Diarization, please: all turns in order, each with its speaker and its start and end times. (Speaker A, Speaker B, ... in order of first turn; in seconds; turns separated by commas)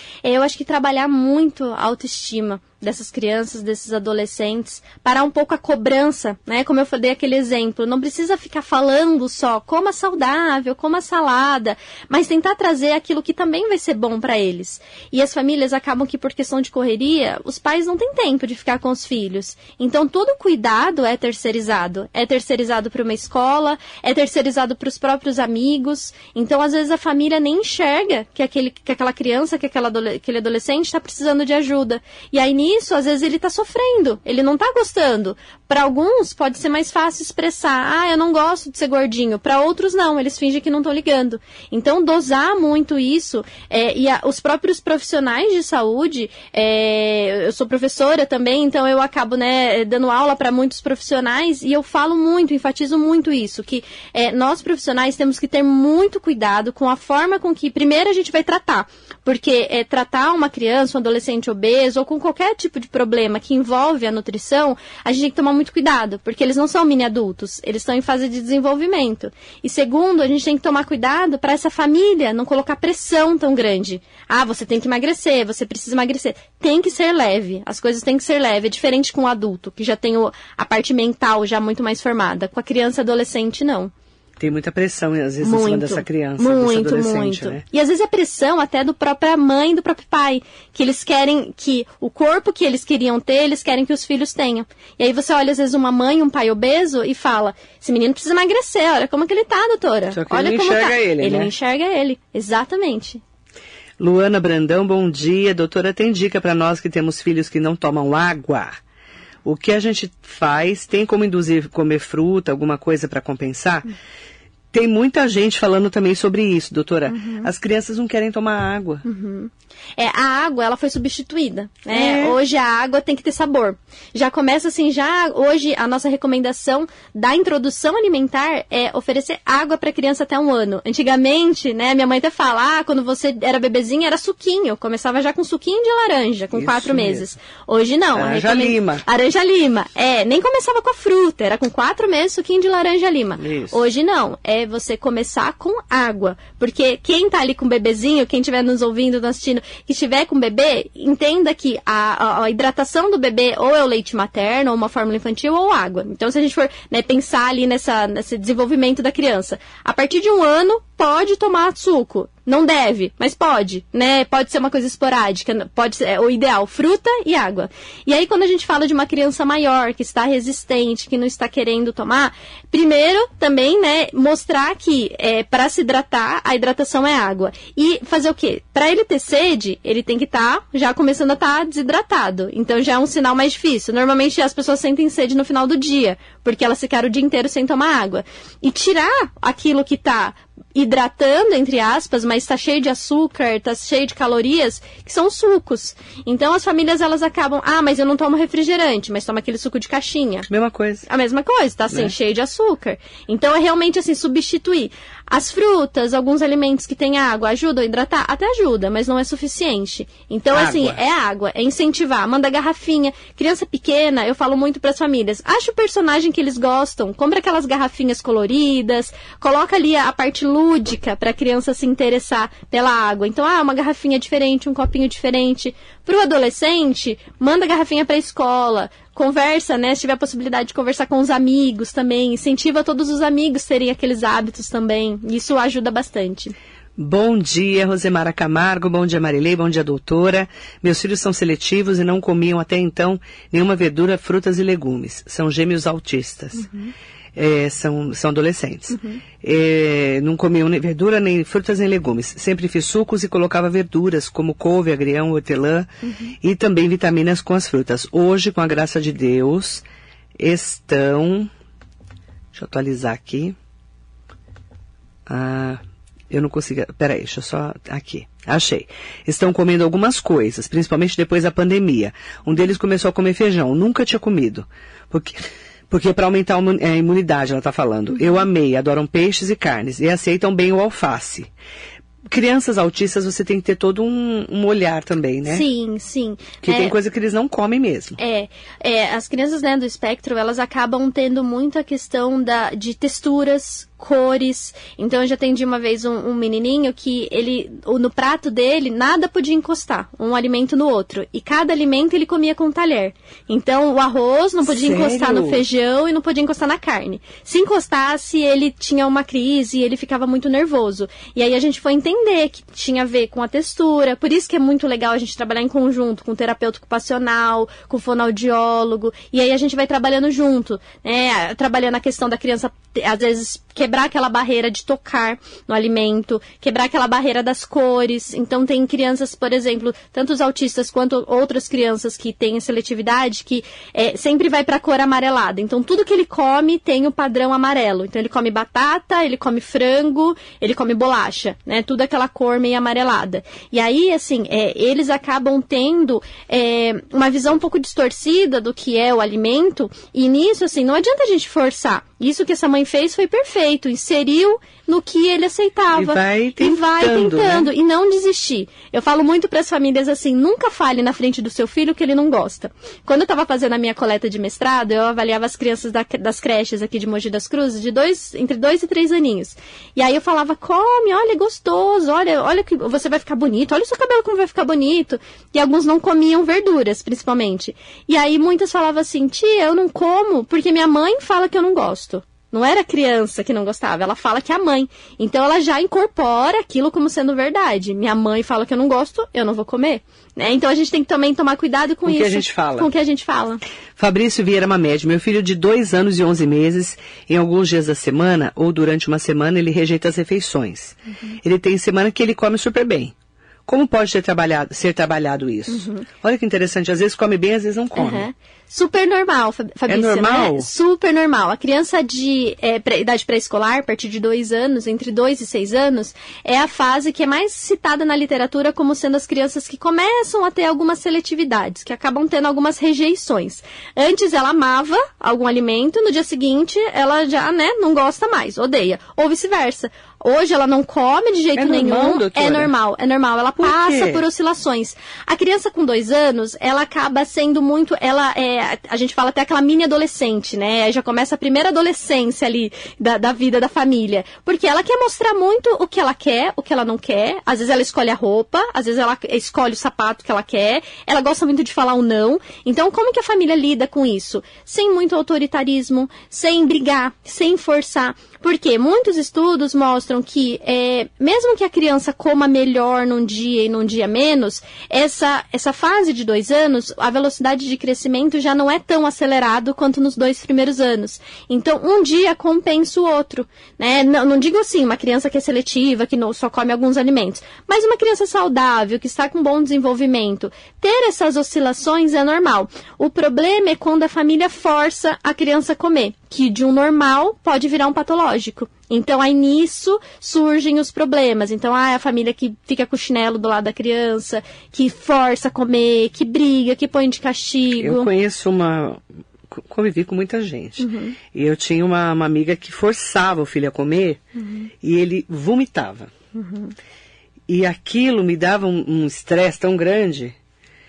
Speaker A: 0.2-83.9, Speaker B: 84.4-87.6, Speaker A: 85.4-103.2, Speaker B: 100.1-101.5, Speaker B: 104.0-108.7, Speaker B: 109.4-113.9, Speaker B: 114.7-119.0, Speaker A: 117.1-117.5, Speaker A: 119.0-200.5, Speaker B: 121.9-122.4, Speaker B: 136.5-137.3, Speaker B: 138.1-139.0, Speaker B: 143.4-143.8, Speaker B: 200.5-201.1, Speaker A: 201.1-236.5, Speaker B: 210.5-211.0, Speaker B: 237.0-246.7, Speaker B: 247.3-255.9, Speaker A: 256.0-256.3, Speaker B: 256.4-259.8, Speaker B: 260.4-261.5, Speaker B: 262.5-263.6, Speaker B: 265.3-281.5, Speaker B: 282.3-285.6, Speaker A: 285.4-286.9, Speaker B: 286.6-288.2, Speaker A: 288.2-393.6, Speaker B: 304.6-305.6, Speaker B: 355.9-357.7, Speaker B: 392.1-392.9, Speaker B: 394.0-403.1, Speaker B: 403.7-408.2, Speaker A: 405.7-406.1, Speaker A: 407.9-498.1, Speaker B: 409.9-410.7, Speaker B: 431.6-432.7, Speaker B: 433.6-434.2, Speaker B: 497.8-504.2, Speaker A: 500.8-501.1, Speaker A: 504.4-504.7, Speaker B: 504.8-506.1, Speaker A: 506.3-506.7, Speaker B: 507.5-510.4